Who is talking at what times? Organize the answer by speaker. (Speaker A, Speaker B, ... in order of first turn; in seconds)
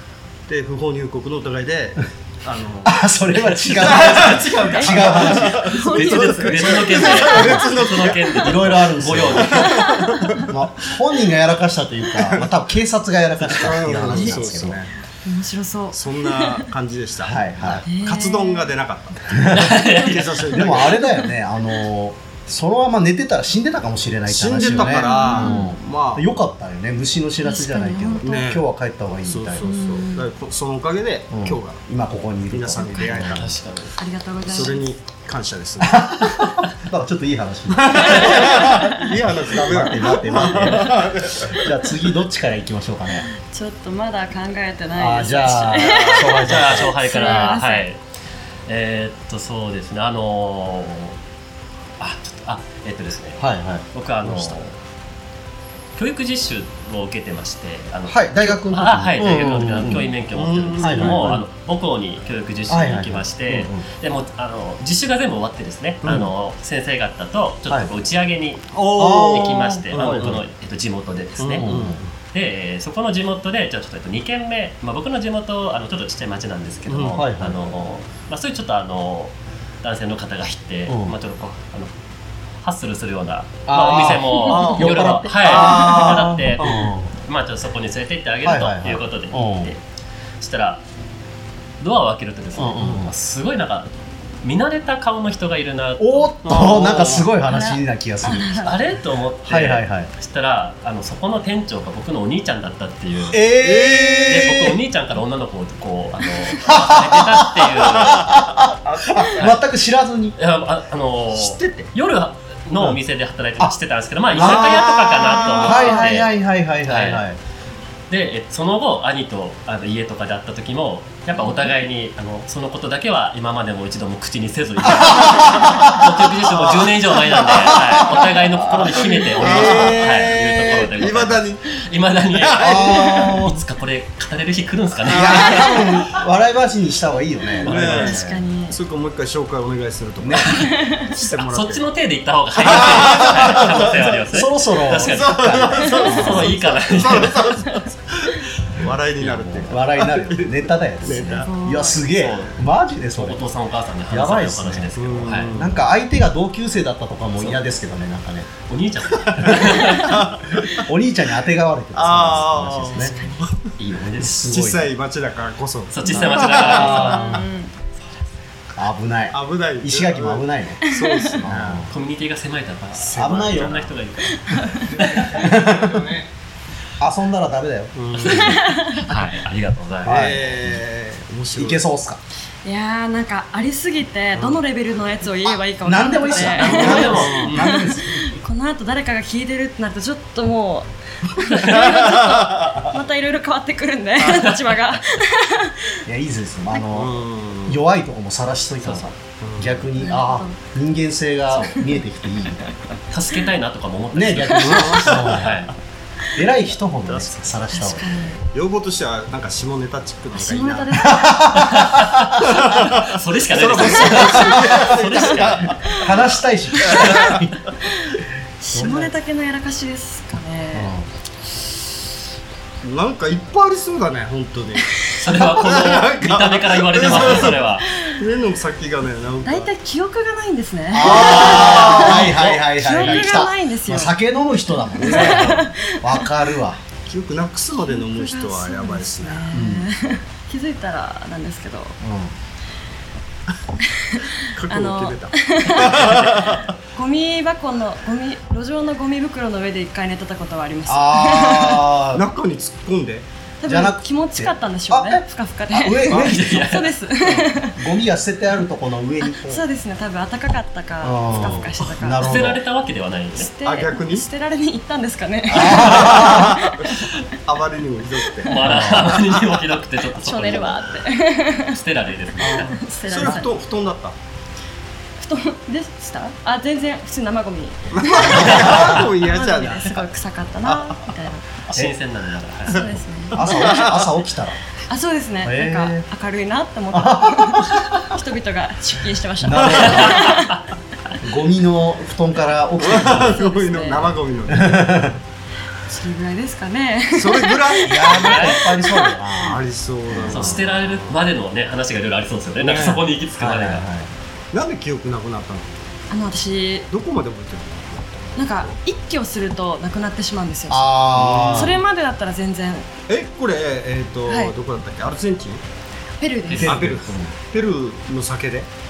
Speaker A: 0.5-10.5, 12.2-12.5, 13.4-14.9, 15.9-21.0, 24.2-26.3, 28.2-28.6, 29.2-31.8, 32.5-33.6, 34.4-36.0, 37.7-41.8, 60.3-61.4, 66.0-66.3, 68.7-70.4, 71.4-72.0, 76.8-77.2, 84.5-86.9, 96.4-97.3, 103.5-104.7, 108.9-109.2, 111.3-111.9, 114.3-116.1, 126.3-128.1, 128.8-133.4, 135.1-136.1, 137.6-141.9, 142.6-144.3, 144.9-151.5, 154.9-155.9, 159.2-160.8, 161.9-167.4, 169.3-171.9, 174.9-176.2, 177.9-178.6, 180.0-181.8, 184.3-184.6, 186.7-187.5, 191.6-192.7, 196.9-197.8, 199.4-199.8, 204.6-205.7, 207.1-207.7, 208.4-210.9, 212.4-216.0, 216.8-217.3, 222.8-229.7, 231.0-233.4, 235.0-235.6, 237.1-239.5, 244.5-246.7, 252.1-253.2, 256.1-256.4, 261.3-261.7, 263.4-264.3, 265.5-266.7, 267.4-269.2, 272.4-274.1, 277.9-280.1, 280.6-281.1, 282.7-284.1, 289.7-290.0, 292.8-295.1, 297.1-298.6, 299.4-301.2, 302.6-303.0, 304.5-305.7, 306.9-308.7, 311.1-311.8, 313.1-315.6, 316.6-318.7
Speaker B: 2.8-6.3, 7.3-7.7, 8.3-9.8, 10.4-14.8, 17.2-17.8, 19.3-19.9, 20.5-29.8, 31.3-33.5, 35.8-38.7, 39.3-43.3, 44.9-47.5, 53.4-54.6, 58.1-60.1, 60.8-61.4, 62.7-63.8, 69.0-70.4, 71.6-72.0, 77.1-77.6, 80.9-81.2, 83.7-87.1, 88.4-89.7, 92.5-93.1, 96.0-98.7, 99.4-100.1, 103.3-104.7, 106.7-110.4, 114.3-117.4, 124.8-126.3, 127.4-130.3, 132.6-133.6, 135.1-138.4, 140.2-140.5, 142.6-146.6, 149.4-153.4, 154.1-154.9, 155.5-158.5, 159.4-160.0, 160.7-163.2, 163.8-164.9, 166.1-167.4, 168.8-170.8, 171.4-171.9, 173.1-173.9, 175.2-176.1, 177.0-178.4, 180.0-180.6, 181.5-182.2, 185.4-188.4, 196.1-202.7, 204.1-205.7, 206.3-208.2, 211.1-212.2, 213.9-214.8, 215.9-217.6, 218.7-219.2, 220.7-221.1, 230.9-236.8, 239.5-239.9, 242.0-242.3, 250.8-252.3, 253.6-259.6, 261.0-262.6, 265.5-266.6, 268.6-269.2, 278.3-279.0, 283.3-284.6, 285.4-286.1, 286.9-288.1, 289.4-290.4, 291.2-293.4, 294.5-295.1, 297.8-300.6, 303.4-304.1, 310.7-311.8, 316.5-317.4
Speaker C: 4.1-4.5, 5.8-9.8, 19.5-20.5, 33.2-33.9, 45.7-48.0, 48.7-51.2, 52.0-54.8, 55.9-71.7, 72.3-81.9, 82.6-89.8, 90.4-90.8, 91.8-96.9, 98.6-103.4, 104.3-108.5, 109.3-109.6, 110.3-116.3, 116.8-117.2, 118.1-136.1, 137.6-138.0, 140.4-140.7, 141.3-147.8, 149.2-149.6, 152.1-155.6, 157.4-157.6, 158.7-160.1, 163.8-164.4, 165.9-167.4, 171.9-175.3, 178.8-180.7, 186.3-187.7, 194.3-194.8, 198.8-199.1, 201.5-201.8, 203.1-205.7, 211.6-215.8, 225.2-227.9, 231.3-232.1, 245.8-246.3, 256.1-256.9, 262.2-263.5, 268.4-271.1, 271.7-273.4, 278.3-279.0, 281.6-282.9, 289.9-290.4, 298.0-298.7, 300.3-303.9, 316.5-316.9
Speaker D: 4.6-7.5, 10.0-10.3, 14.1-14.6, 15.2-16.6, 17.8-18.7, 19.9-21.3, 24.6-25.7, 27.4-28.6, 29.6-30.3, 32.8-33.2, 34.0-34.9, 38.1-38.9, 43.3-47.9, 84.2-84.9, 97.5-98.8, 137.9-138.8, 140.5-141.0, 151.2-152.1, 162.9-163.4, 166.2-167.8, 170.8-171.4, 174.4-174.9, 178.2-179.0, 182.6-196.0, 200.0-200.6, 201.6-202.0, 207.7-208.4, 210.3-211.6, 218.1-220.9, 224.9-225.3, 227.1-228.2, 229.4-234.2, 234.7-236.2, 237.7-242.0, 243.8-246.1, 246.9-251.9, 253.6-257.8, 259.2-262.4, 263.4-267.2, 270.2-271.8, 272.3-273.5, 275.2-281.5, 282.7-283.9, 284.9-290.6, 293.0-294.2, 295.8-299.2, 306.1-306.9, 308.4-311.0, 311.5-312.9, 314.3-314.6, 316.2-316.8